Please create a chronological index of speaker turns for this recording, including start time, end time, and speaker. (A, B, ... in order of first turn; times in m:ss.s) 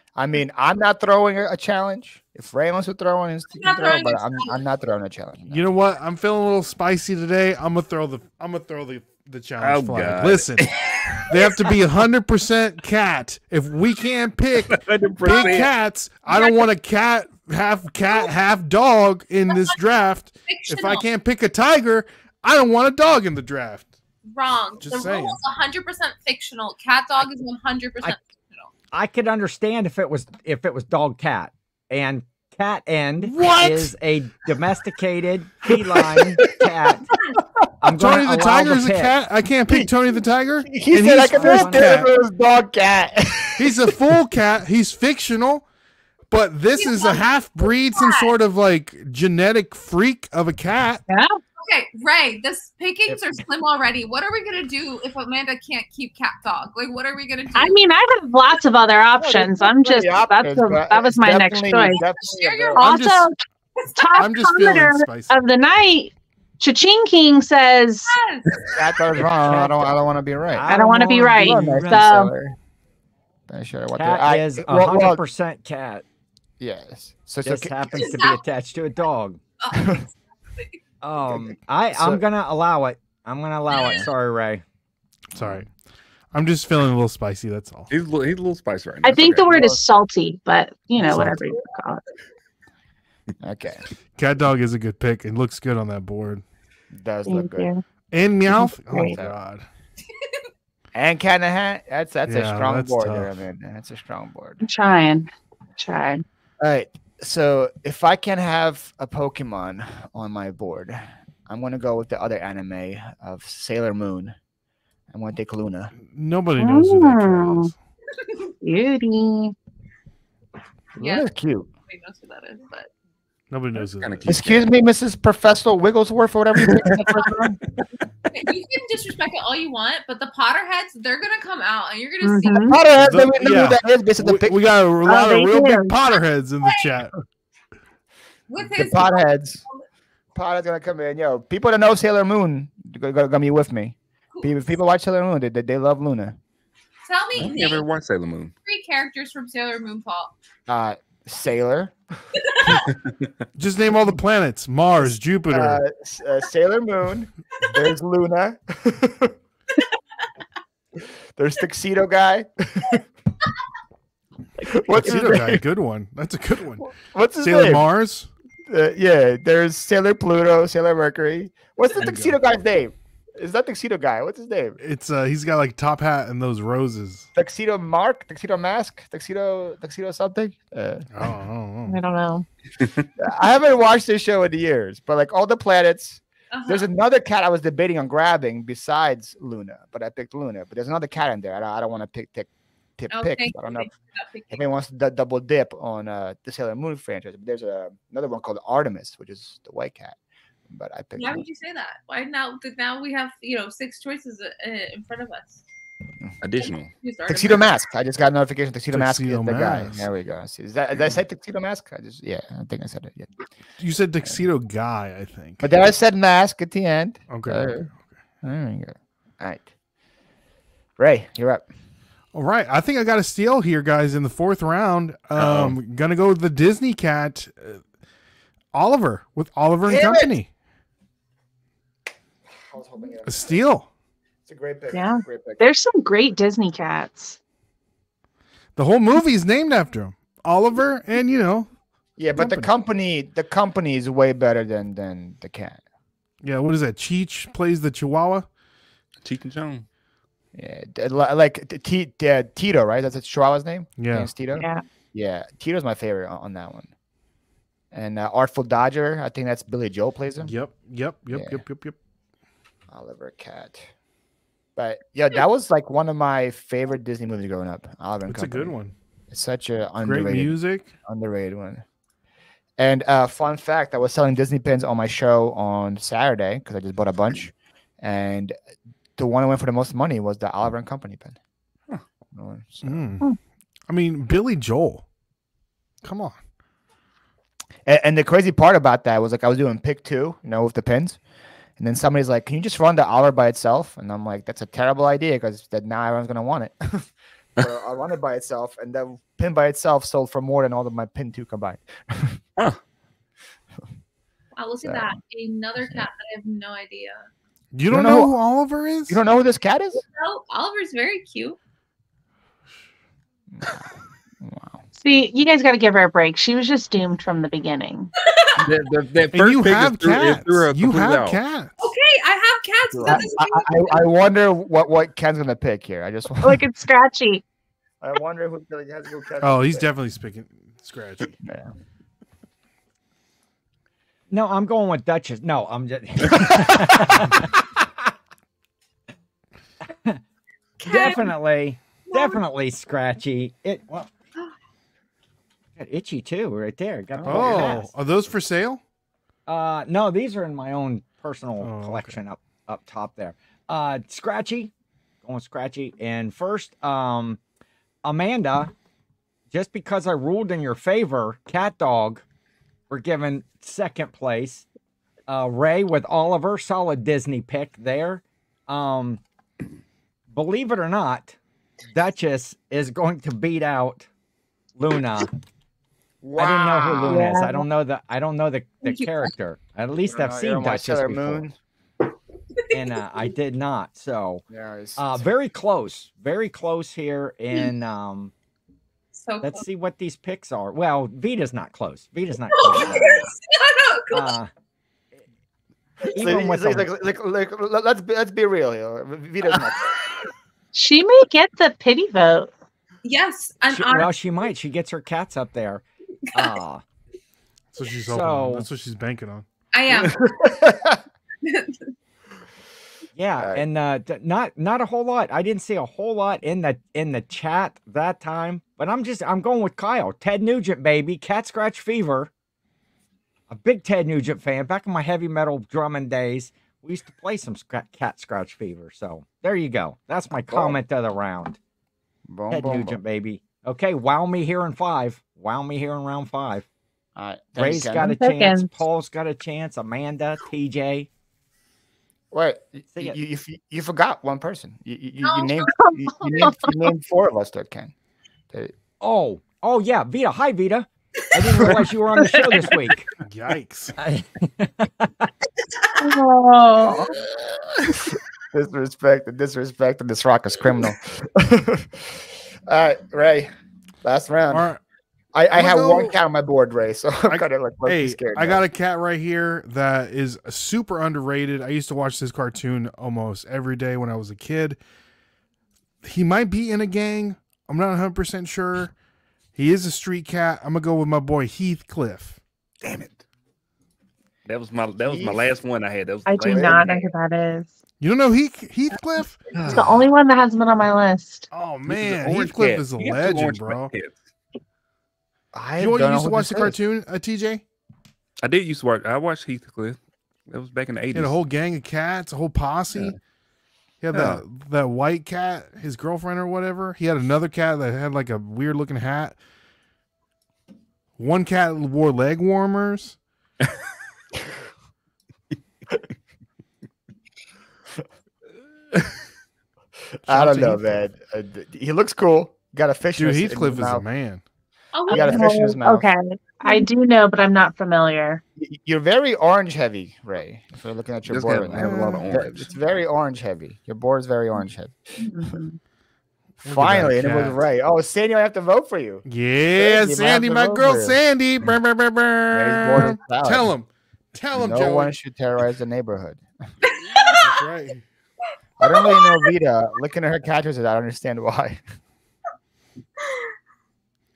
0:00.2-0:05.6 A
0:03.5-0:04.6 B
0:05.5-0:10.7 C
0:09.6-0:11.4 D
0:11.3-0:23.9 C
0:14.6-0:15.7 D
0:15.3-0:15.6 B
0:16.3-0:16.6 B
0:19.5-0:19.8 B
0:20.4-0:21.0 B
0:24.3-0:28.7 B
0:24.8-0:25.4 C
0:28.9-0:37.1 E
0:33.3-0:33.9 C
0:37.8-0:39.1 E
0:37.8-0:42.1 C
0:40.6-0:44.0 A
0:41.3-0:41.9 E
0:43.6-0:45.6 C
0:46.3-0:51.0 C
0:46.7-0:48.3 B
0:51.1-0:51.4 F
0:51.6-0:57.8 B
0:57.6-1:02.0 F
0:59.2-1:02.8 A
1:02.2-1:02.9 B
1:02.8-1:03.4 F
1:02.8-1:03.3 C
1:03.8-1:04.2 B
1:04.0-1:08.1 F
1:04.2-1:05.4 C
1:08.1-1:08.7 B
1:08.7-1:12.6 A
1:09.2-1:12.1 E
1:10.6-1:12.3 F
1:13.5-1:15.2 A
1:13.9-1:16.0 E
1:16.6-1:18.2 A
1:17.4-1:19.4 E
1:18.0-1:18.4 B
1:19.6-1:20.8 B
1:21.0-1:24.6 E
1:21.2-1:22.2 A
1:23.7-1:24.0 B
1:25.3-1:25.7 C
1:25.3-1:25.6 A
1:26.3-1:27.9 C
1:27.9-1:29.5 D
1:29.0-1:32.0 F
1:29.5-1:29.8 A
1:31.0-1:31.6 A
1:31.1-1:31.4 C
1:33.4-1:33.9 A
1:34.2-1:36.4 C
1:36.9-1:37.7 A
1:37.3-1:37.8 F
1:38.1-1:39.6 C
1:38.5-1:39.2 F
1:38.9-1:39.4 A
1:40.9-1:44.6 A
1:42.2-1:43.4 C
1:44.6-1:46.2 F
1:46.6-1:54.3 A
1:55.1-1:55.9 A
1:56.0-1:57.7 C
1:56.6-1:57.7 F
1:58.2-1:58.5 B
1:58.6-1:59.5 F
2:01.0-2:01.7 A
2:01.0-2:01.3 B
2:01.9-2:02.9 B
2:03.5-2:04.4 C
2:03.8-2:04.7 D
2:04.2-2:07.5 A
2:06.8-2:07.6 F
2:08.3-2:12.8 B
2:12.2-2:12.8 F
2:12.6-2:14.6 A
2:13.0-2:17.2 C
2:15.0-2:15.9 F
2:16.6-2:16.9 B
2:18.5-2:19.8 B
2:18.7-2:19.6 A
2:20.3-2:26.4 A
2:27.0-2:27.9 B
2:27.4-2:28.5 D
2:28.6-2:30.3 B
2:30.7-2:32.0 A
2:32.4-2:32.8 B
2:32.9-2:33.3 D
2:33.6-2:35.8 C
2:35.0-2:39.3 A
2:41.4-2:43.0 A
2:44.6-2:44.9 F
2:44.8-2:45.6 A
2:44.9-2:48.3 C
2:46.8-2:47.8 A
2:48.7-2:54.8 A
2:52.0-2:52.4 C
2:54.8-2:57.3 C
2:57.3-3:01.2 A
3:01.1-3:02.0 C
3:01.9-3:02.4 F
3:03.2-3:13.9 A
3:06.5-3:06.9 B
3:13.1-3:14.6 B
3:14.5-3:20.2 A
3:20.7-3:21.4 A
3:21.2-3:25.6 B
3:26.4-3:26.9 D
3:26.6-3:27.6 B
3:27.3-3:33.3 A
3:28.9-3:30.1 C
3:33.8-3:35.7 C
3:35.6-3:37.9 A
3:37.3-3:38.0 C
3:38.4-3:39.7 A
3:41.0-3:41.6 A
3:42.3-3:47.8 C
3:45.4-3:45.8 D
3:48.7-3:50.5 C
3:49.8-3:50.3 A
3:52.5-3:53.6 A
3:53.2-3:53.9 C
3:54.4-3:55.6 A
3:54.9-3:57.4 F
3:58.8-4:01.7 C
4:02.2-4:05.8 A
4:02.4-4:02.7 C
4:06.4-4:08.5 C
4:09.2-4:09.8 D
4:10.5-4:16.9 A
4:14.0-4:14.3 C
4:14.6-4:14.8 F
4:17.9-4:20.5 A
4:20.4-4:22.0 C
4:21.3-4:21.6 A
4:22.9-4:23.9 A
4:24.8-4:28.8 A
4:28.2-4:28.9 C
4:29.3-4:31.8 A
4:30.0-4:30.9 C
4:32.8-4:38.5 A
4:39.2-4:41.4 A
4:42.3-4:43.1 A
4:42.8-4:43.2 C
4:43.9-4:45.0 C
4:46.0-4:46.4 C
4:47.8-4:51.2 A
4:51.8-5:02.4 A
5:04.6-5:07.3 B
5:04.8-5:05.1 A
5:07.7-5:09.2 C
5:07.9-5:08.4 A
5:09.1-5:10.0 A
5:10.1-5:11.6 B
5:13.5-5:13.9 A
5:14.4-5:14.8 A
5:15.0-5:18.1 F
5:18.2-5:18.7 B
5:18.6-5:21.4 D
5:19.3-5:21.9 C
5:21.8-5:24.0 B
5:23.0-5:26.6 A
5:26.4-5:27.4 F
5:28.0-5:29.9 A
5:29.4-5:31.3 C
5:31.4-5:31.7 A
5:34.3-5:38.1 E
5:36.4-5:37.3 A
5:39.9-5:40.2 E
5:40.8-5:41.3 B
5:40.8-5:44.1 E
5:42.1-5:42.4 B
5:45.8-5:47.9 E
5:47.2-5:47.8 D
5:47.2-5:48.8 C
5:49.5-5:54.7 E
5:51.6-5:52.2 C
5:55.2-5:57.4 E
5:58.0-5:58.7 E
5:59.5-6:02.2 E
6:02.9-6:04.7 E
6:05.3-6:09.2 E
6:10.3-6:14.1 E
6:14.8-6:15.3 E
6:16.2-6:17.3 A
6:16.4-6:21.4 E
6:17.1-6:17.6 F
6:18.8-6:19.3 B
6:20.0-6:21.5 A
6:22.6-6:23.0 B
6:22.7-6:24.4 E
6:24.5-6:25.3 A
6:25.0-6:28.3 E
6:29.2-6:29.6 B
6:29.4-6:33.3 E
6:32.5-6:34.4 B
6:32.8-6:33.2 A
6:34.1-6:34.5 E
6:36.1-6:36.9 E
6:36.1-6:40.0 A
6:40.7-6:42.5 F
6:43.0-6:44.3 B
6:43.7-6:46.8 E
6:47.7-6:49.4 C
6:48.0-6:48.7 E
6:49.7-6:50.6 B
6:50.0-6:51.0 A
6:51.4-6:51.9 B
6:53.2-7:02.3 E
6:53.4-6:53.6 A
7:03.5-7:11.6 E
7:10.5-7:10.8 A
7:12.3-7:13.0 A
7:12.5-7:16.6 E
7:17.2-7:18.2 A
7:17.6-7:21.1 E
7:18.0-7:18.7 F
7:22.3-7:27.9 A
7:25.2-7:25.7 B
7:25.7-7:26.8 F
7:29.0-7:33.1 E
7:32.3-7:32.6 F
7:33.2-7:34.0 C
7:34.0-7:35.3 E
7:36.0-7:37.1 F
7:36.8-7:37.1 A
7:37.9-7:43.5 A
7:44.0-7:44.7 A
7:44.5-7:44.8 C
7:45.3-7:48.6 A
7:45.5-7:46.2 C
7:47.3-7:54.8 C
7:56.0-7:58.9 C
7:59.5-8:02.4 C
8:02.8-8:03.1 A
8:04.4-8:07.1 D
8:05.0-8:05.4 A
8:06.3-8:07.7 F
8:06.4-8:06.8 A
8:08.0-8:09.6 C
8:09.5-8:10.1 D
8:09.7-8:11.5 F
8:11.5-8:13.9 C
8:11.9-8:14.2 D
8:15.5-8:16.8 A
8:15.8-8:17.6 C
8:18.4-8:21.4 D
8:21.1-8:23.2 C
8:24.0-8:29.4 C
8:24.1-8:24.4 D
8:31.2-8:33.2 C
8:40.2-8:41.0 C
8:40.2-8:44.0 A
8:43.2-8:44.4 C
8:44.9-8:45.5 B
8:45.1-8:48.4 F
8:45.1-8:46.1 A
8:48.6-8:54.9 A
8:51.3-8:52.8 D
8:51.8-8:52.4 C
8:55.2-8:55.8 F
8:56.6-8:57.6 C
8:56.6-9:01.2 A
8:59.2-9:05.1 C
9:02.5-9:03.7 A
9:04.5-9:06.4 A
9:06.9-9:07.6 B
9:07.4-9:08.0 C
9:08.8-9:11.8 A
9:08.8-9:09.5 B